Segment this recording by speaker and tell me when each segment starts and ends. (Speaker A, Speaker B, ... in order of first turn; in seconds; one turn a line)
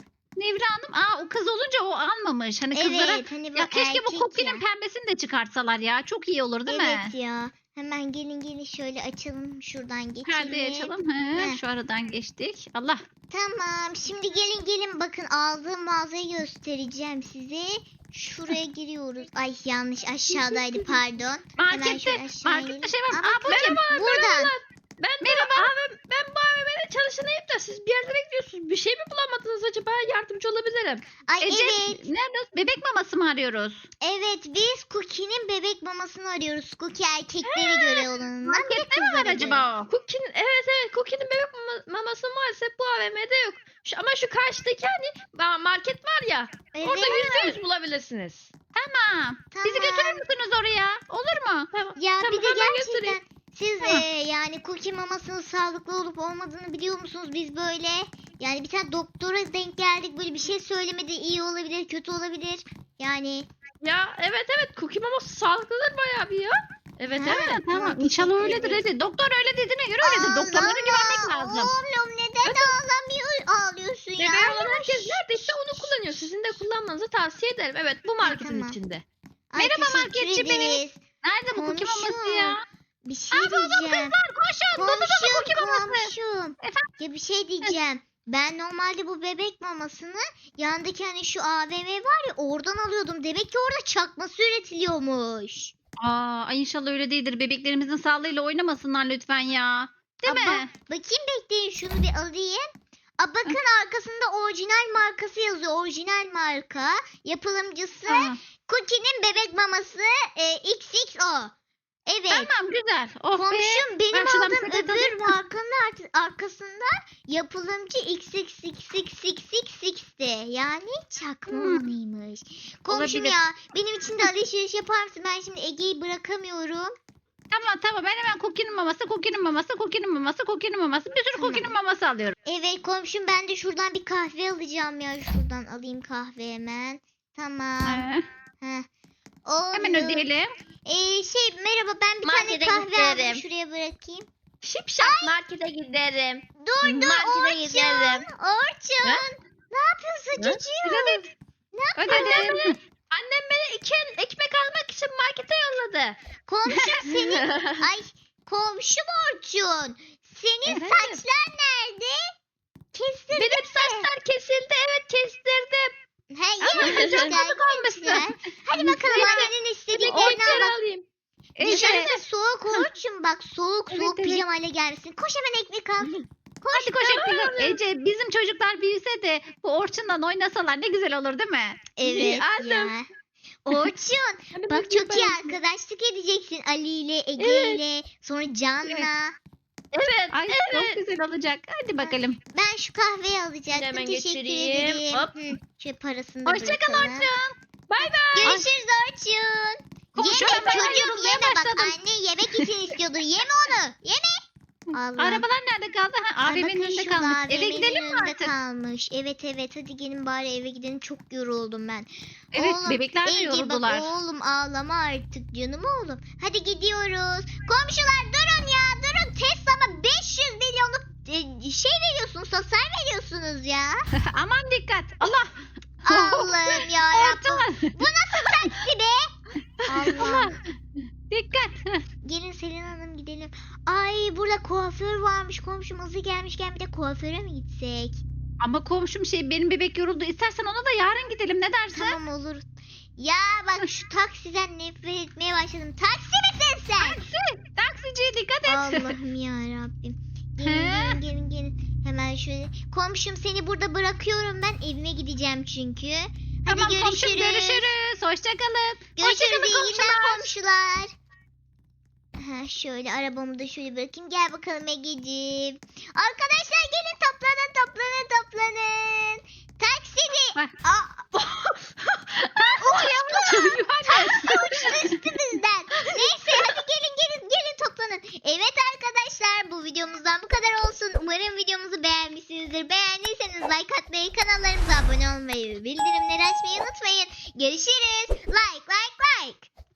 Speaker A: 0.4-7.1
Speaker B: 2.7-4.6
Speaker B: 6.7-11.6
Speaker A: 10.2-13.0
Speaker B: 13.3-24.5
Speaker A: 20.4-20.9
Speaker A: 21.6-23.8
Speaker C: 23.5-31.1
Speaker A: 25.2-25.7
Speaker B: 31.3-32.0
Speaker A: 31.4-33.9
Speaker B: 34.0-39.6
Speaker C: 37.5-38.1
Speaker A: 38.5-39.9
Speaker C: 39.9-48.5
Speaker B: 46.7-47.6
Speaker A: 48.8-51.7
Speaker B: 49.5-50.2
Speaker C: 51.7-53.2
Speaker B: 52.0-63.5
Speaker C: 63.8-67.6
Speaker B: 67.1-68.8
Speaker A: 67.2-71.7
Speaker B: 70.0-75.9
Speaker C: 72.5-72.7
Speaker C: 74.2-79.0
Speaker B: 78.2-78.8
Speaker B: 79.5-81.0
Speaker A: 79.6-82.6
Speaker B: 81.5-84.2
Speaker A: 83.3-86.9
Speaker B: 84.7-95.7
Speaker A: 96.0-100.7
Speaker B: 100.2-111.5
Speaker A: 108.1-108.4
Speaker B: 112.1-112.5
Speaker A: 112.3-115.4
Speaker B: 113.3-126.9
Speaker A: 121.5-121.9
Speaker A: 122.9-123.4
Speaker A: 127.5-132.4
Speaker B: 131.3-131.8
Speaker B: 132.5-138.1
Speaker A: 137.9-138.3
Speaker B: 138.6-138.9
Speaker B: 139.5-140.3
Speaker A: 139.7-140.5
Speaker B: 140.9-144.3
Speaker C: 142.2-143.4
Speaker C: 144.6-148.3
Speaker B: 145.0-145.3
Speaker B: 146.6-152.6
Speaker A: 150.8-151.3
Speaker A: 152.0-152.8
Speaker C: 152.1-156.2
Speaker B: 156.5-162.3
Speaker C: 157.0-157.9
Speaker C: 160.7-161.2
Speaker B: 162.9-164.1
Speaker C: 163.3-165.9
Speaker B: 166.3-170.8
Speaker A: 166.7-168.2
Speaker C: 166.7-168.3
Speaker C: 168.8-171.1
Speaker A: 169.1-169.5
Speaker A: 170.1-170.7
Speaker A: 171.6-172.1
Speaker B: 171.6-177.1
Speaker C: 171.6-172.2
Speaker A: 173.9-174.4
Speaker A: 176.7-181.8
Speaker C: 177.1-177.8
Speaker B: 182.0-183.1
Speaker C: 182.1-182.9
Speaker B: 183.7-189.4
Speaker C: 184.5-185.6
Speaker C: 187.4-187.8
Speaker C: 189.9-191.0
Speaker A: 190.3-192.4
Speaker B: 192.0-197.3
Speaker C: 193.7-195.3
Speaker A: 196.5-197.6
Speaker C: 197.9-198.6
Speaker B: 198.3-204.4
Speaker A: 198.4-198.7
Speaker A: 200.2-202.0
Speaker B: 204.9-205.4
Speaker A: 205.2-208.5
Speaker B: 206.4-224.0
Speaker A: 212.5-214.2
Speaker A: 224.1-225.5
Speaker B: 226.0-229.3
Speaker A: 226.1-228.8
Speaker B: 229.9-230.6
Speaker A: 230.1-230.6
Speaker A: 231.3-232.0
Speaker B: 232.2-238.2
Speaker A: 238.6-242.2
Speaker B: 241.9-247.2
Speaker A: 247.0-249.2
Speaker B: 248.7-257.9
Speaker A: 250.6-251.2
Speaker A: 256.7-260.5
Speaker B: 259.2-261.1
Speaker B: 262.4-271.3
Speaker A: 272.4-275.2
Speaker B: 272.8-289.7